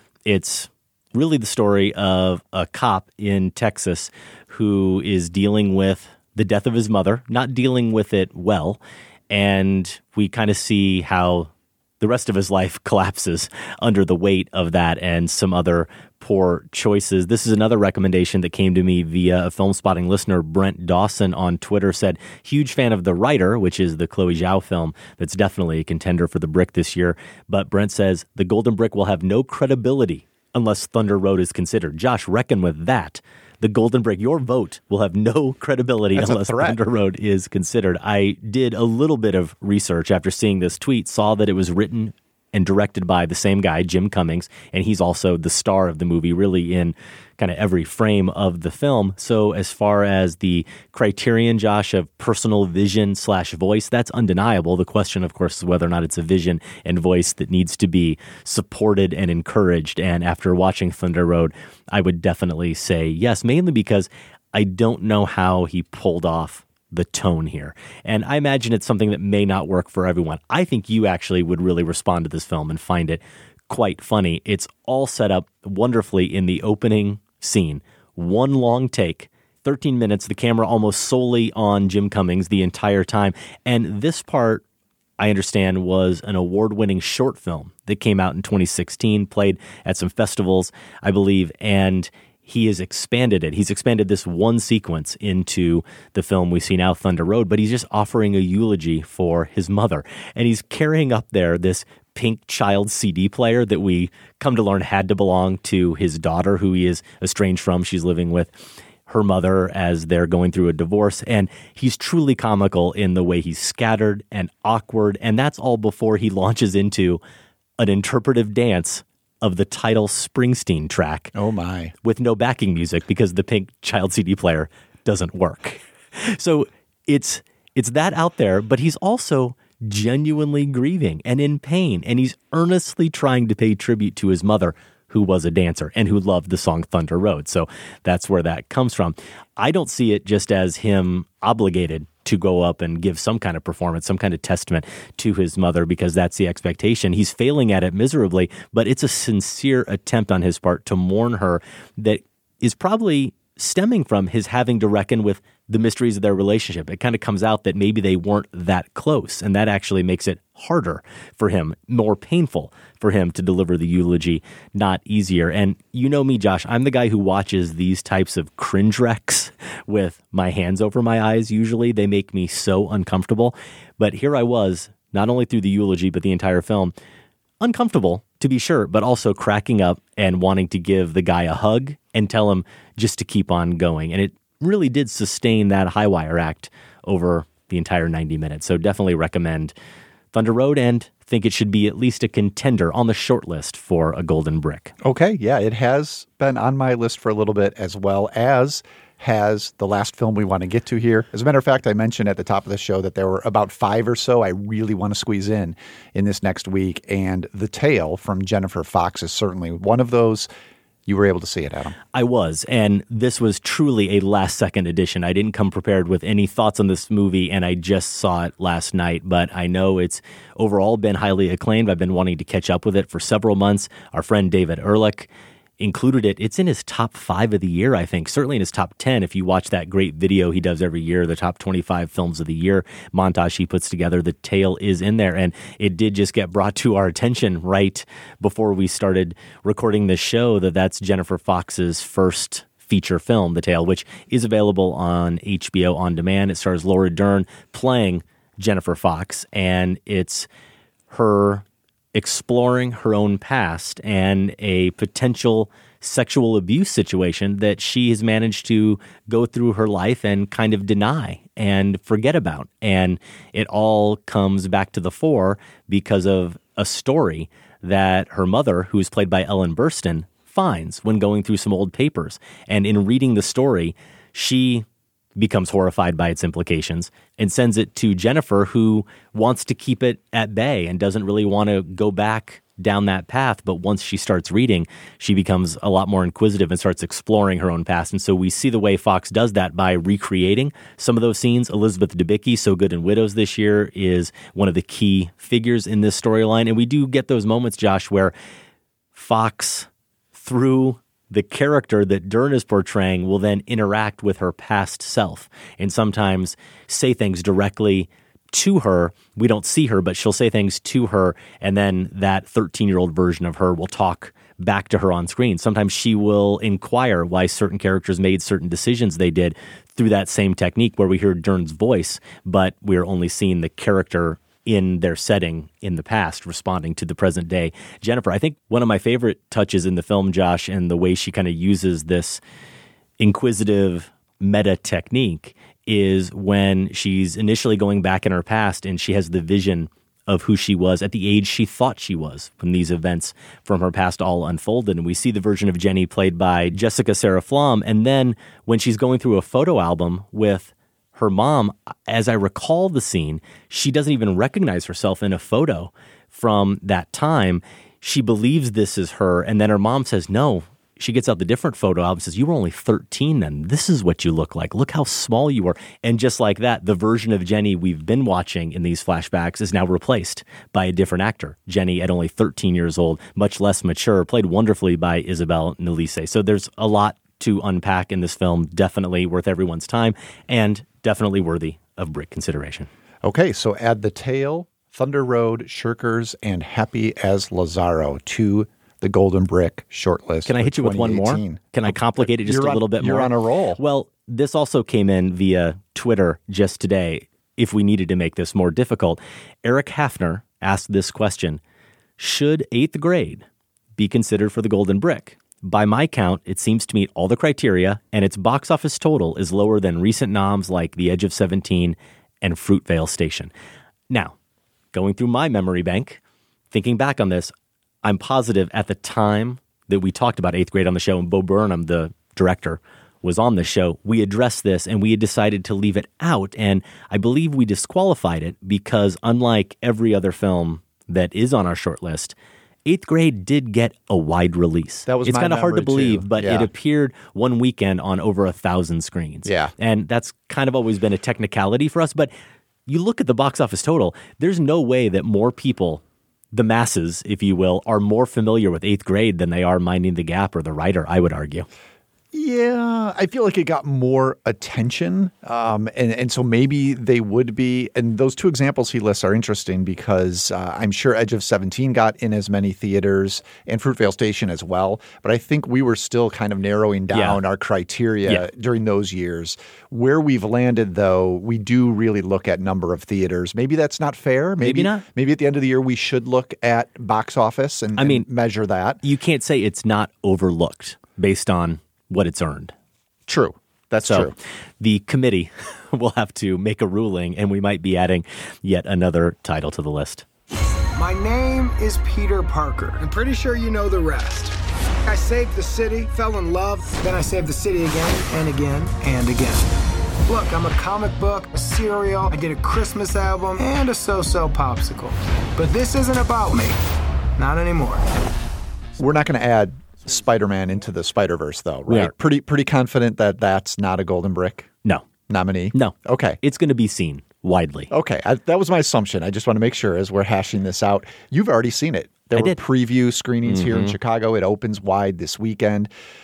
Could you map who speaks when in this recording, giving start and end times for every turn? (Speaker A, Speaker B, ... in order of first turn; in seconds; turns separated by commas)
Speaker A: 0.2-84.6, Speaker B: 36.1-36.8, Speaker A: 85.2-108.5, Speaker A: 109.1-117.2, Speaker A: 117.8-121.3, Speaker B: 121.3-121.9, Speaker A: 122.0-176.9, Speaker A: 177.6-189.7, Speaker A: 190.3-194.9, Speaker B: 195.0-210.5, Speaker B: 211.1-212.0, Speaker A: 212.1-250.5, Speaker A: 251.1-298.3, Speaker A: 299.1-332.4, Speaker A: 333.2-382.9, Speaker B: 383.2-393.8, Speaker A: 390.4-401.6, Speaker A: 402.2-403.4, Speaker A: 404.0-413.5, Speaker A: 414.1-414.3, Speaker A: 414.9-416.2, Speaker A: 416.7-417.5, Speaker A: 418.0-442.3, Speaker B: 435.1-436.7, Speaker B: 439.4-439.7, Speaker A: 442.9-451.7, Speaker B: 452.3-479.0, Speaker A: 467.1-467.4, Speaker A: 474.6-475.0, Speaker A: 477.9-478.3, Speaker A: 479.0-482.7, Speaker B: 483.3-484.3, Speaker A: 484.0-490.2, Speaker C: 490.9-499.7, Speaker C: 500.2-506.8, Speaker C: 507.4-508.1, Speaker B: 509.0-514.7, Speaker A: 511.9-512.1, Speaker B: 515.3-516.4, Speaker A: 515.7-517.9, Speaker B: 517.9-525.9, Speaker A: 523.4-524.0